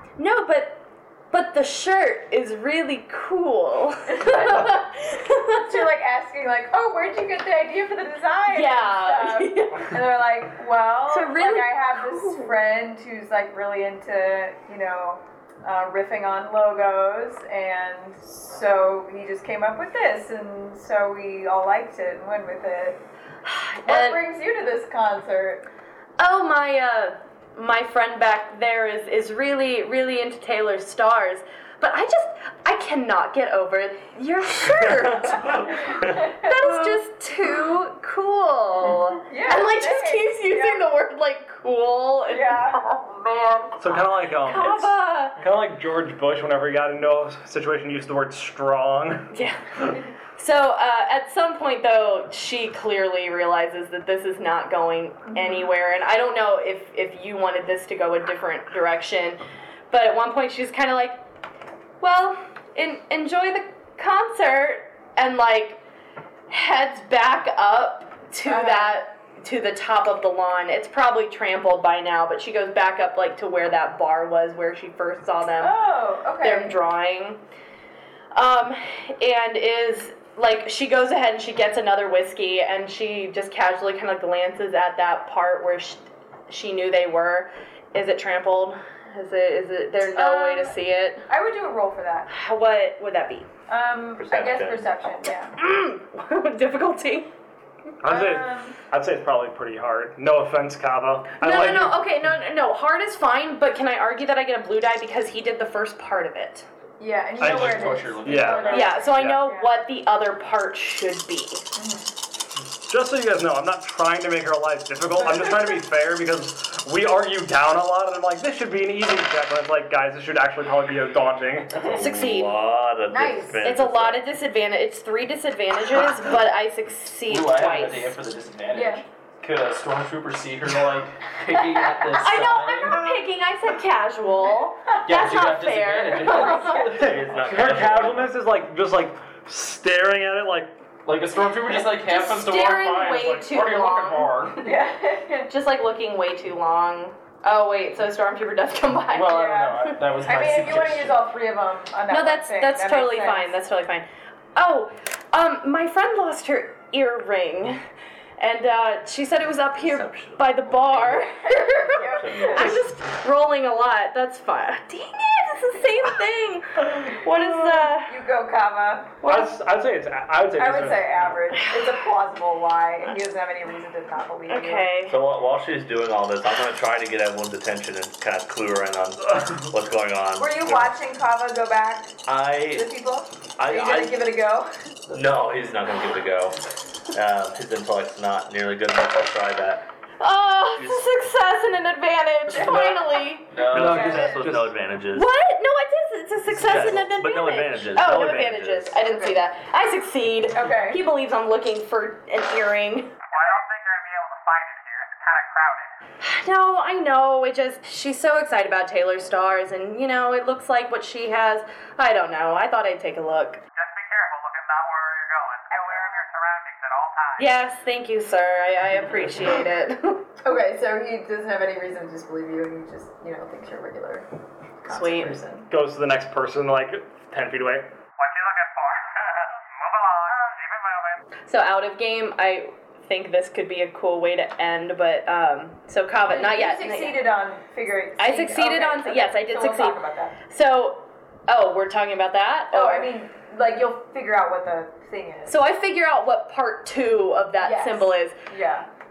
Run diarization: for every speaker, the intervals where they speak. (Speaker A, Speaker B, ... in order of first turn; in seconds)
Speaker A: 0.2-5.8, 8.5-10.0, 11.1-12.5, 23.4-24.2, 26.2-35.8, 36.4-45.4, 49.3-59.4, 59.9-61.2, 62.0-65.8, 66.5-75.7, 76.4-77.4, 78.3-91.2, 92.3-93.5, 95.5-97.3, 101.4-106.7, 108.7-111.7, 121.9-122.5, 123.6-128.1, 132.1-136.9, 141.9-144.6, 145.5-149.5, 152.1-157.8, 158.4-168.1, 169.2-169.5, 174.5-175.2, 190.2-193.7, 195.1-203.2, 206.2-213.6, 217.4-220.3, 224.9-225.4, 231.5-237.2, 238.2-243.1, 245.5-248.4
Speaker B: 4.1-4.8, 5.6-23.0, 23.8-25.7, 35.5-37.0, 39.2-40.9, 42.3-42.8, 68.4-69.0, 75.6-76.8, 90.0-90.8, 91.3-92.3, 93.7-95.5, 98.0-98.8, 107.0-109.7, 111.7-112.1, 115.2-115.7, 123.1-123.6, 128.7-129.0, 136.3-136.9, 144.6-145.5, 149.2-153.6, 161.4-162.7, 168.1-169.2, 170.5-174.9, 180.4-184.7, 192.5-193.1, 193.7-194.4, 200.5-201.0, 220.4-224.3, 224.8-225.7, 236.3-240.4, 242.7-245.6, 247.6-248.9
Speaker C: 34.7-36.2, 94.2-94.9, 121.9-124.2, 136.9-138.4, 159.8-161.3, 162.0-162.8, 175.1-180.9, 182.3-182.9, 183.6-184.2, 185.1-186.6, 187.1-189.8, 190.8-191.0, 192.6-192.9, 193.5-195.3, 196.5-198.9
Speaker D: 43.8-49.3, 98.0-102.0, 107.4-109.4, 112.8-122.4, 137.0-140.8, 169.2-171.2, 193.6-194.7, 205.2-205.8, 214.1-216.1, 225.7-227.9
Speaker E: 107.4-109.0, 127.3-133.1, 135.1-137.4, 141.0-144.7, 149.1-151.2
Speaker F: 203.3-205.6, 213.8-217.3, 228.2-229.0, 229.9-230.8